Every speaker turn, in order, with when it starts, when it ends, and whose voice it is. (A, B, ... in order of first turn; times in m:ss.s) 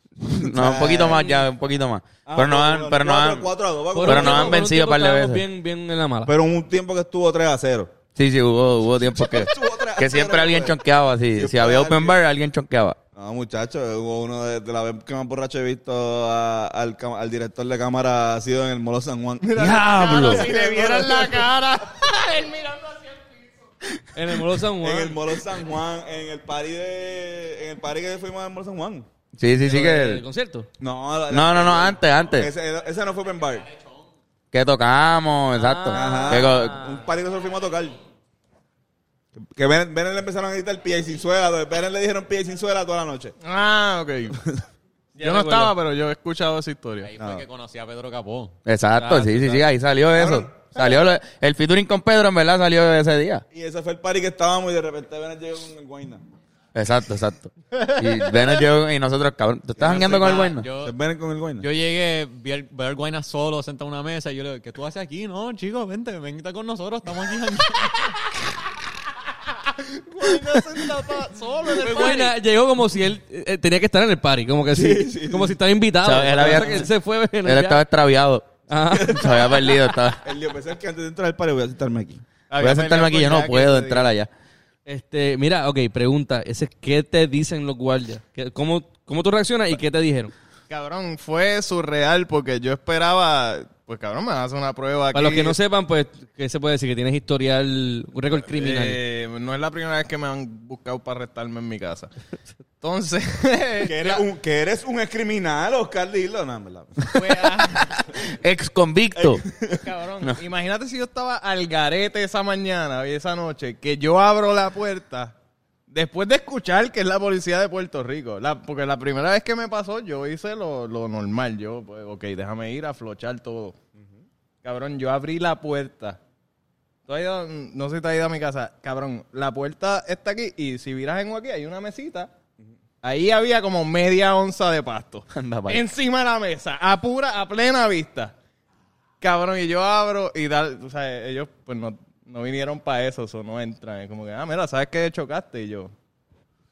0:00.3-0:03.5 A
0:00.3-0:01.4 B
0:02.3-0:04.6 B
0:03.9-0:06.3 C
0:04.0-0:05.4 A
0:06.3-0:07.9 B
0:08.2-0:13.0 A
0:09.1-0:10.8 B
0:11.3-0:12.2 B
0:13.2-0:21.5 B
0:19.4-0:23.4 D
0:19.6-0:20.5 A
0:24.1-0:25.2 C
0:24.8-0:29.1 B
0:29.4-0:30.2 A
0:29.6-0:30.7 C
0:30.8-0:33.7 B
0:31.3-0:32.5 A
0:34.5-0:36.8 A
0:35.6-0:37.0 C
0:35.9-0:38.0 B
0:39.4-0:43.4 B
0:43.4-0:44.4 D
0:45.2-0:47.1 D
0:45.2-0:45.8 C
0:47.0-0:48.6 E
0:47.2-0:47.4 B
0:48.7-0:53.4 A
0:49.0-0:49.6 C
0:50.1-0:50.8 B
0:53.5-0:56.2 B
0:56.8-1:00.7 A
0:59.8-1:01.7 B
1:00.0-1:00.9 E
1:01.6-1:08.2 E
1:09.6-1:12.3 D
1:11.7-1:17.8 C
1:14.7-1:15.6 B
1:16.0-1:16.9 A
1:17.4-1:20.2 A
1:18.7-1:19.3 C
1:18.9-1:22.2 B
1:22.5-1:24.1 D
1:22.6-1:24.3 A
1:24.9-1:30.3 C
1:30.7-1:35.6 D
1:35.1-1:39.0 C
1:38.5-1:42.1 D
1:42.8-1:44.2 D
1:43.8-1:47.6 B
1:47.1-1:47.9 D
1:47.8-1:49.4 A
1:49.2-1:49.8 B
1:49.6-1:55.4 D
1:55.9-2:03.8 D
2:04.0-2:04.2 B
2:04.6-2:06.2 D
2:07.1-2:12.3 D
2:13.0-2:18.3 D
2:15.3-2:15.8 A
2:19.2-2:25.9 D